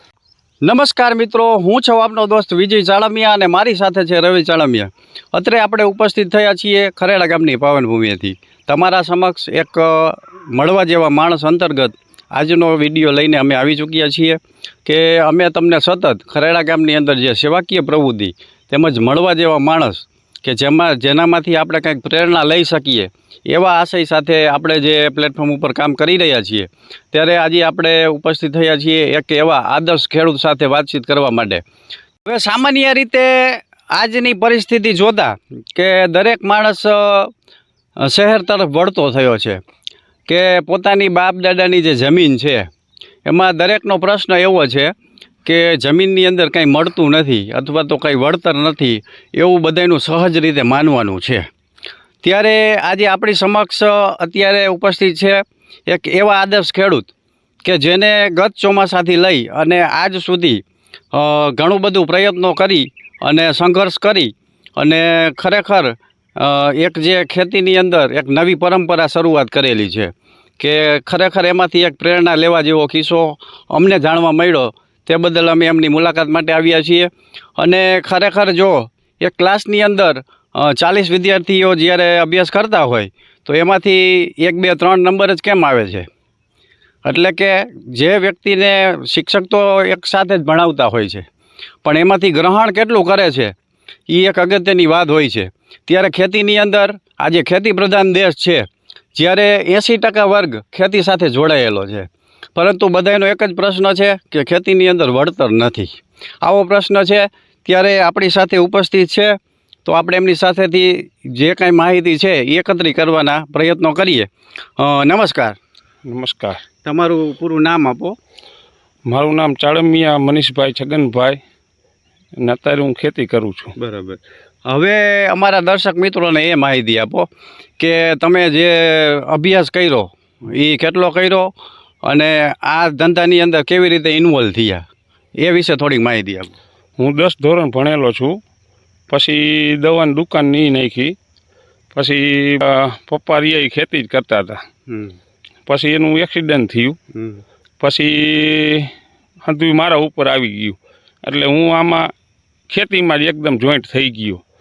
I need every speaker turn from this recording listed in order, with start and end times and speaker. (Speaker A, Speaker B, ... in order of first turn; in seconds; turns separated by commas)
Speaker A: 0.6-31.6, Speaker A: 32.2-37.3, Speaker A: 38.0-39.6, Speaker A: 40.3-42.7, Speaker A: 43.2-44.9, Speaker A: 45.5-51.5, Speaker A: 52.2-57.1, Speaker A: 57.6-60.6, Speaker A: 61.1-86.1, Speaker A: 87.0-91.2, Speaker A: 91.8-93.5, Speaker A: 94.1-105.9, Speaker A: 106.4-115.6, Speaker B: 116.1-116.6, Speaker A: 116.8-118.2, Speaker B: 119.1-121.4, Speaker B: 122.4-123.7, Speaker A: 123.8-127.3, Speaker A: 127.8-131.5, Speaker A: 132.0-134.8, Speaker A: 135.4-136.5, Speaker B: 137.0-138.4, Speaker B: 139.1-141.2, Speaker B: 141.9-144.6, Speaker A: 144.9-145.2, Speaker B: 145.7-147.0, Speaker A: 147.1-147.4, Speaker B: 147.8-148.9, Speaker B: 149.4-152.1, Speaker B: 152.7-154.4